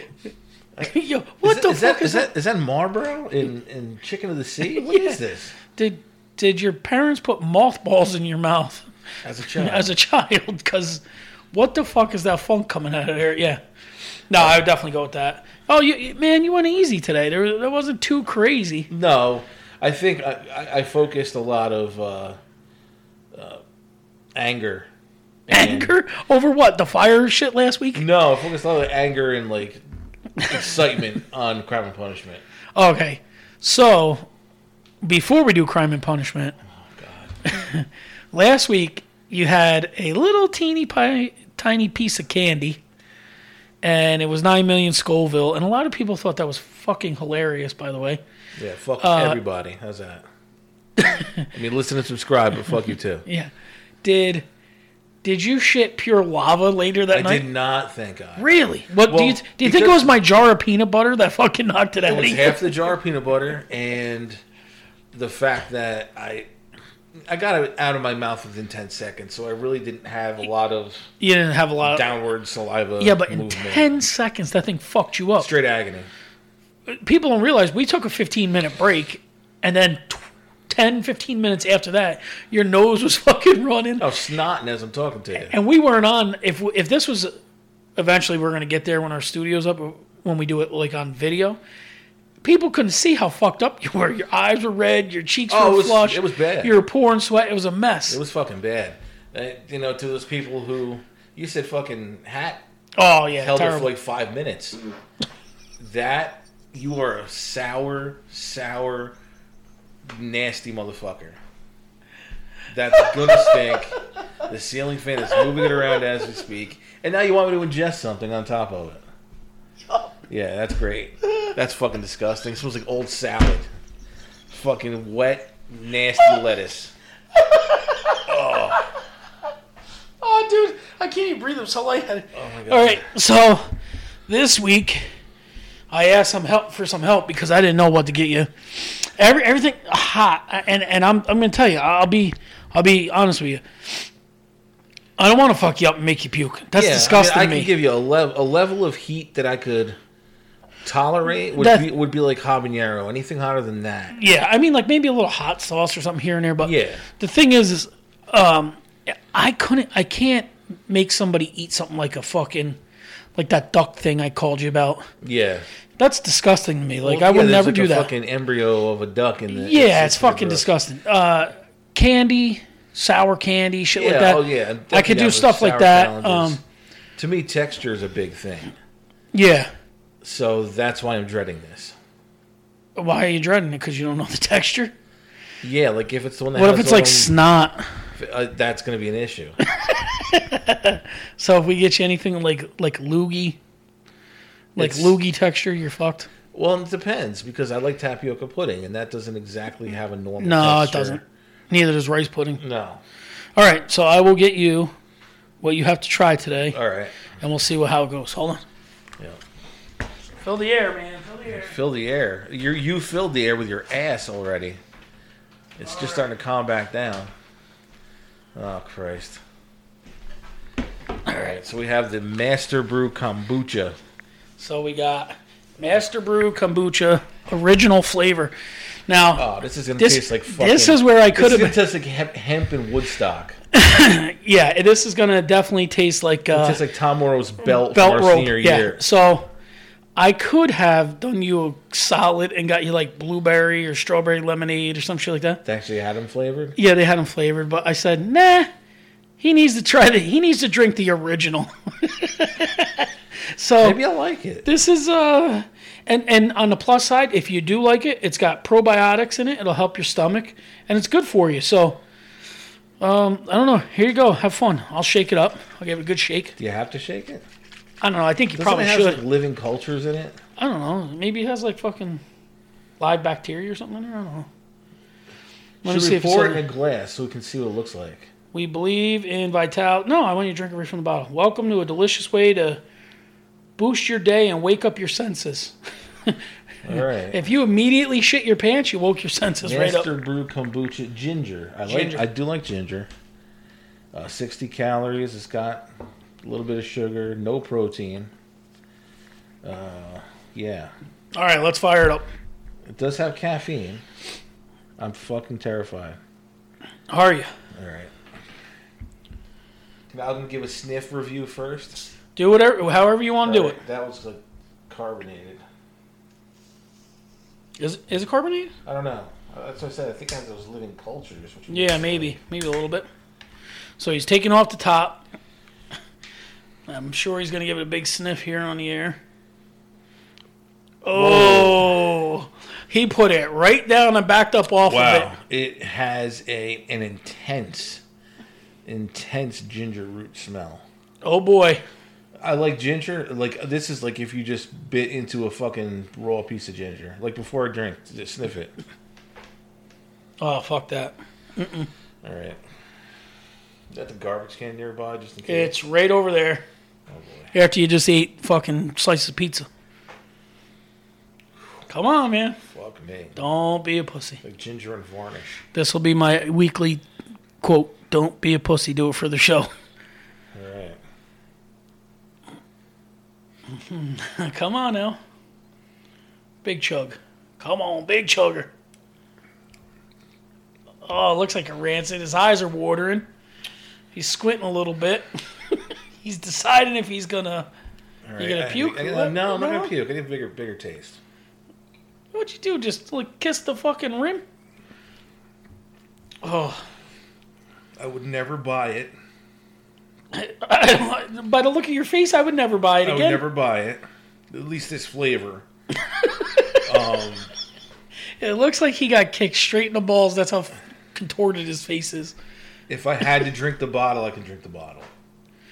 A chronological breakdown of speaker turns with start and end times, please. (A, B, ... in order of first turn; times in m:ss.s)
0:00.8-0:02.3 A
0:01.4-0:05.5 B
0:04.7-0:05.2 A
0:05.7-0:08.9 A
0:09.2-0:09.9 B
0:09.6-0:13.6 A
0:14.3-0:18.9 A
0:14.3-0:14.6 B
0:18.9-0:22.4 B
0:23.3-0:23.6 B
0:24.3-0:24.9 B
0:25.5-0:25.9 B
0:25.5-0:28.0 A
0:27.9-0:29.8 B
0:30.4-0:32.4 B
0:32.8-0:34.3 A
0:35.0-0:36.6 A
0:36.7-0:37.4 B
0:37.4-0:42.8 A
0:43.8-0:48.2 A
0:48.6-0:50.2 B
0:49.0-0:49.4 A
0:51.0-0:51.5 A
0:51.5-0:53.2 B
0:54.0-0:54.4 A
0:55.2-0:57.4 A
0:57.1-0:58.5 B
0:58.4-1:02.7 A
0:59.0-1:00.1 B
1:02.0-1:04.4 B
1:05.1-1:06.5 B
1:07.2-1:11.1 B
1:11.2-1:12.1 A
1:11.8-1:13.9 B
1:13.0-1:15.5 A
1:15.4-1:16.1 B
1:16.9-1:24.0 A
1:24.0-1:25.5 B
1:25.3-1:27.3 A
1:28.0-1:31.6 A
1:32.4-1:38.2 A
1:35.5-1:36.8 B
1:38.1-1:42.6 B
1:43.0-1:43.9 A
1:43.3-1:44.8 B
1:45.8-1:49.2 B
1:50.0-1:51.4 B
1:52.7-1:59.0 B
2:00.3-2:03.7 B
2:04.5-2:06.9 B
2:07.3-2:08.5 A
2:08.2-2:08.8 B
2:10.2-2:13.7 A
2:12.3-2:13.1 B
2:14.3-2:15.0 A
2:15.9-2:24.1 A
2:25.2-2:27.7 A
2:26.7-2:30.0 B
2:30.8-2:34.2 B
2:31.6-2:31.9 A
2:34.1-2:42.8 A
2:36.6-2:37.0 B
2:43.4-2:45.1 A
2:45.2-2:45.7 B
2:46.0-2:48.1 A
2:47.0-2:50.7 B
2:49.5-2:56.6 A
2:53.9-2:56.6 B
2:57.2-2:58.7 B
2:59.3-2:59.7 A
3:00.2-3:02.0 B
3:03.0-3:04.9 A
3:05.6-3:07.3 B
3:06.5-3:08.0 A
3:08.2-3:09.6 B
3:09.6-3:13.6 A
3:14.7-3:16.3 A
3:14.8-3:15.2 B
3:16.5-3:21.2 B
3:20.4-3:22.6 A
3:22.6-3:23.0 B
3:23.6-3:24.9 A
3:25.6-3:26.8 A
3:26.7-3:27.2 B
3:27.4-3:28.6 A
3:30.4-3:31.7 A
3:31.5-3:34.8 B
3:35.8-3:37.3 B
3:38.5-3:39.4 B
3:41.2-3:41.6 A
3:41.3-3:44.0 B
3:44.6-3:48.5 A
3:49.1-3:49.4 A
3:49.4-3:53.6 B
3:50.0-3:51.8 A
3:53.7-3:56.8 A
3:56.5-3:59.0 B
3:57.6-3:59.5 A
4:00.2-4:05.6 A
4:05.6-4:06.8 B
4:06.8-4:08.7 A
4:09.4-4:14.0 A
4:13.8-4:14.7 B
4:14.6-4:22.0 A
4:23.0-4:26.6 A
4:26.6-4:27.4 B
4:28.0-4:29.2 A
4:28.6-4:30.4 B
4:30.6-4:32.2 A
4:33.0-4:34.5 A
4:35.8-4:36.6 A
4:35.8-4:38.3 B
4:38.5-4:42.8 A
4:43.8-4:45.7 A
4:46.2-4:50.1 A
4:46.8-4:47.4 B
4:49.6-4:53.1 B
4:51.8-4:52.2 A
4:54.1-4:55.9 B
4:56.4-4:58.3 B
4:59.6-5:00.9 B
5:01.3-5:02.2 A
5:02.8-5:04.0 B
5:05.0-5:06.2 B
5:07.1-5:07.5 A
5:07.7-5:08.1 B
5:10.1-5:12.0 B
5:12.4-5:13.8 A
5:13.4-5:15.6 B
5:17.8-5:18.7 A
5:18.8-5:22.4 B
5:21.7-5:23.1 A
5:24.0-5:25.2 A
5:26.9-5:29.2 A
5:31.0-5:35.3 A
5:31.1-5:32.0 B
5:34.8-5:38.0 B
5:38.8-5:40.8 B
5:41.2-5:41.8 A
5:42.4-5:48.7 B
5:50.4-5:51.9 A
5:52.2-5:52.6 B
5:53.9-5:55.7 B
5:55.5-5:56.6 A
5:57.1-5:57.5 B
5:57.5-5:59.7 A
6:01.9-6:02.6 A
6:02.7-6:03.4 B
6:03.4-6:04.4 A
6:04.4-6:05.6 B
6:05.7-6:07.0 A
6:07.6-6:09.7 A
6:10.5-6:11.0 B
6:13.7-6:15.2 A
6:16.6-6:18.7 A
6:21.0-6:23.3 A
6:24.1-6:27.7 A
6:28.3-6:31.2 B
6:28.4-6:29.9 A
6:32.3-6:34.4 A
6:36.4-6:36.8 A
6:38.0-6:39.1 B
6:40.3-6:43.4 A
6:43.0-6:45.6 B
6:46.8-6:47.5 B
6:48.4-6:52.4 A
6:52.9-6:55.1 B